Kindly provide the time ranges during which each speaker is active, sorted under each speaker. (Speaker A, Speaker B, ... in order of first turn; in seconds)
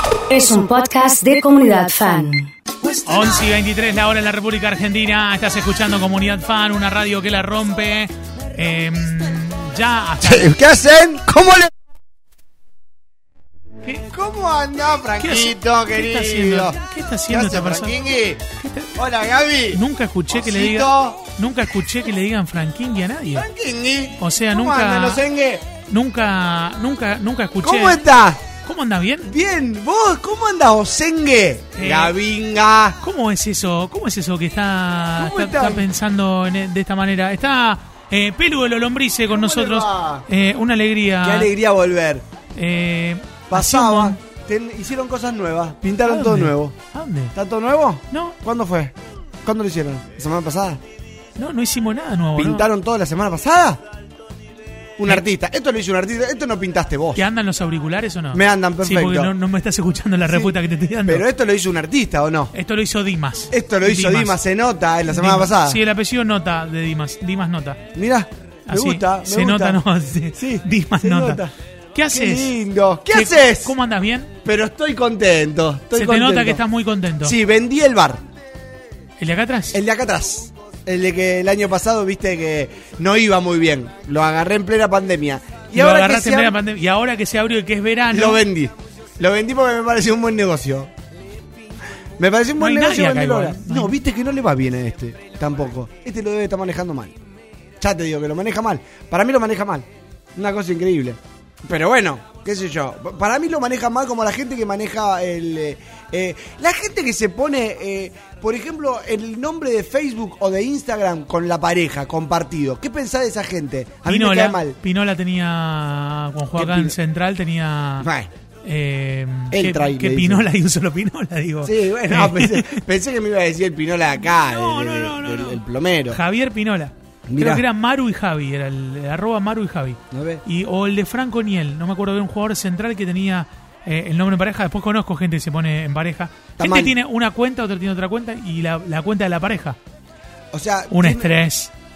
Speaker A: 0.3-3.0
Speaker B: 3.0-10.5, 15.2-18.0, 18.6-18.9, 19.7-23.5, 24.2-25.2, 25.9-28.0, 28.6-29.3, 31.8-32.1, 33.0-41.5, 42.5-44.2, 46.0-47.3, 48.1-48.4, 51.4-52.7, 57.1-61.2, 62.5-64.4, 65.1-67.8, 68.7-71.4, 71.9-72.5, 73.1-74.3, 75.9-77.3, 79.2-79.8, 85.7-88.5, 92.6-94.0, 114.1-118.1, 118.6-122.8, 124.2-139.8, 140.9-141.7
Speaker C: 10.2-11.7, 14.1-21.3, 23.3-25.7, 27.6-28.4, 29.2-33.0, 35.2-35.9, 39.3-40.3, 41.2-42.2, 43.5-46.8, 47.3-50.8, 52.4-53.8, 55.0-57.3, 58.3-59.3, 60.3-62.5, 63.5-65.8, 67.9-69.8, 70.3-71.5, 72.1-73.8, 74.4-76.6, 77.2-78.2, 79.7-86.6, 88.1-90.9, 92.2-97.2, 97.8-114.8, 116.5-117.0, 118.0-118.3, 119.5-120.5, 121.6-126.2, 127.3-127.7, 130.1-130.4, 136.6-137.0, 140.5-141.3